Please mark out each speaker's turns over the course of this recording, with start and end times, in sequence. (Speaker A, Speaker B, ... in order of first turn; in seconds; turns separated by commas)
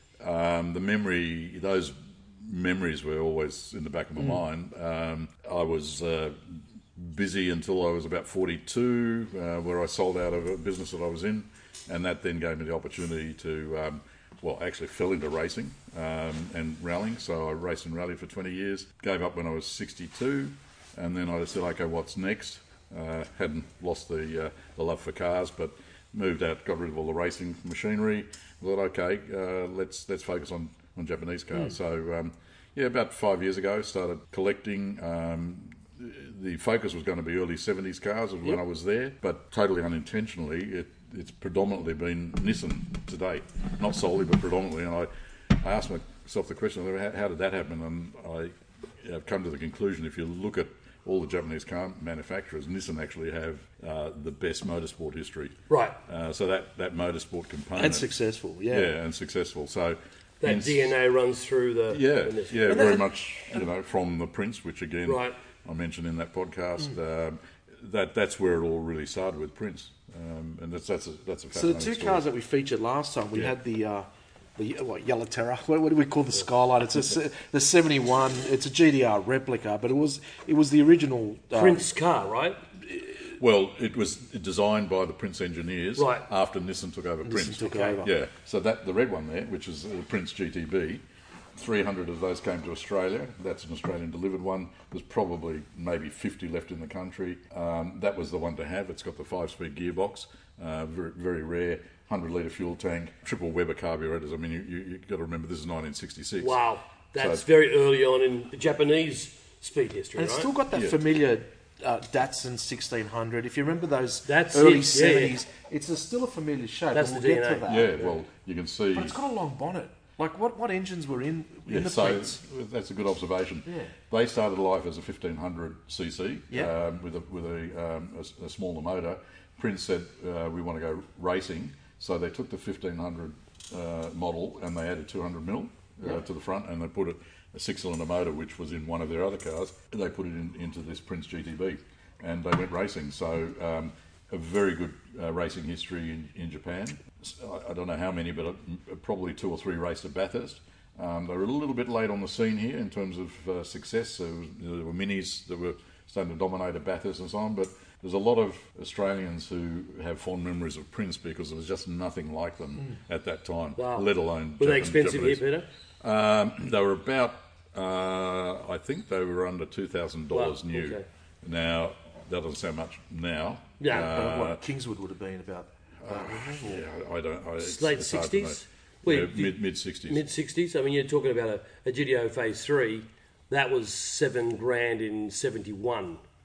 Speaker A: 0.2-58.1, Speaker B: 55.7-56.0, Speaker C: 57.7-58.9, Speaker A: 58.7-61.0, Speaker B: 60.4-63.0, Speaker A: 61.9-72.2, Speaker C: 62.7-63.1, Speaker B: 65.0-65.4, Speaker C: 71.5-81.8, Speaker B: 81.5-82.6, Speaker A: 83.3-91.0, Speaker B: 86.0-86.3, Speaker C: 87.2-88.1, Speaker A: 91.5-106.6, Speaker B: 106.4-110.5, Speaker A: 107.2-107.4, Speaker C: 110.2-118.2, Speaker A: 110.7-111.0, Speaker B: 114.3-115.3, Speaker B: 116.9-117.6, Speaker A: 117.7-119.2, Speaker C: 118.9-122.4, Speaker A: 121.7-165.4, Speaker C: 123.7-123.9, Speaker B: 163.8-164.1, Speaker B: 164.6-165.7, Speaker A: 166.0-174.6, Speaker B: 170.3-171.0, Speaker B: 173.8-174.1, Speaker C: 173.9-176.9, Speaker A: 176.0-180.2, Speaker B: 177.6-186.2